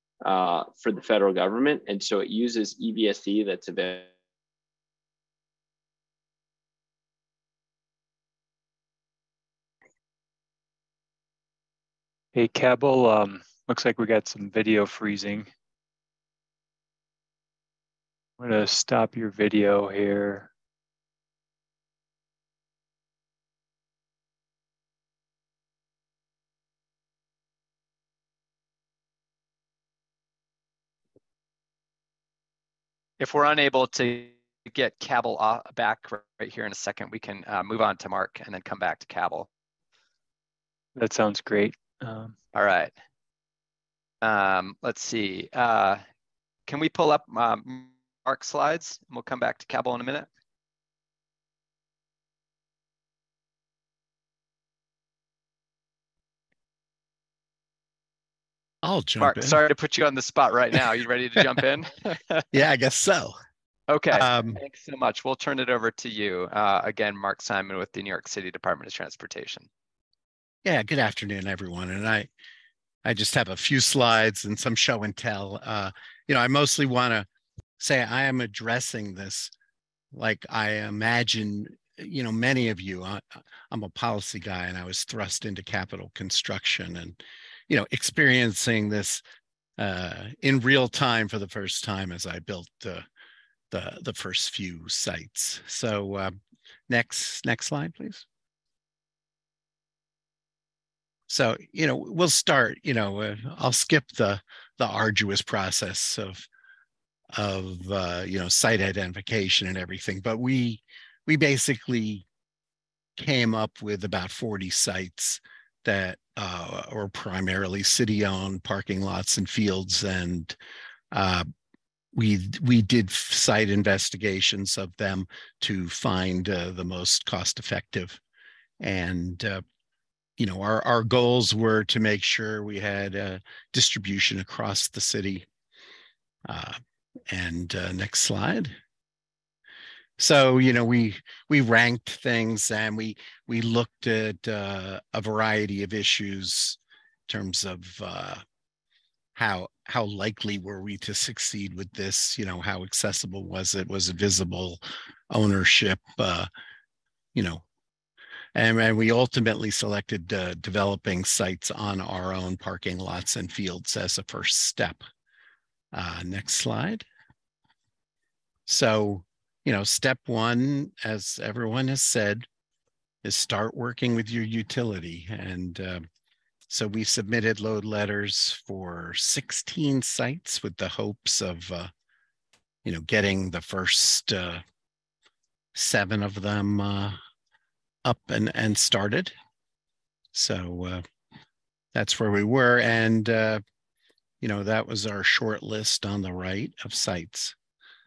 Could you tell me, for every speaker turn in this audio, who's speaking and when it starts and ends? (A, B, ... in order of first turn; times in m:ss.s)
0:00.2-0:04.1 A
0:12.3-0:15.5 B
0:18.4-0:20.5 B
0:33.2-0:39.5 C
0:41.0-0:42.4 B
0:42.5-0:42.9 C
0:44.2-0:46.0 C
0:46.7-0:50.3 C
0:58.8-0:59.6 D
0:59.2-1:02.4 C
1:02.5-1:03.4 D
1:03.9-1:09.7 C
1:04.1-1:04.6 D
1:10.6-1:12.3 D
1:13.0-1:17.3 D
1:17.8-1:19.5 D
1:20.1-1:29.2 D
1:29.8-1:33.0 D
1:33.7-1:36.4 D
1:36.9-1:38.2 D
1:41.3-1:46.5 D
1:47.4-1:52.2 D
1:53.2-2:00.6 D
2:01.1-2:01.5 D
2:02.1-2:08.2 D
2:08.8-2:09.6 D
2:10.4-2:15.5 D
2:16.5-2:18.8 D
2:20.2-2:28.4 D
2:29.3-2:36.5 D
2:37.3-2:37.6 D
2:38.5-2:45.0 D
2:45.9-2:47.0 D
2:48.7-2:52.5 D
2:53.2-2:56.0 D
2:56.7-3:01.9 D
3:02.8-3:04.6 D
3:05.8-3:07.2 D
3:08.0-3:09.3 D
3:10.3-3:11.0 D
3:11.9-3:13.6 D
3:14.4-3:17.6 D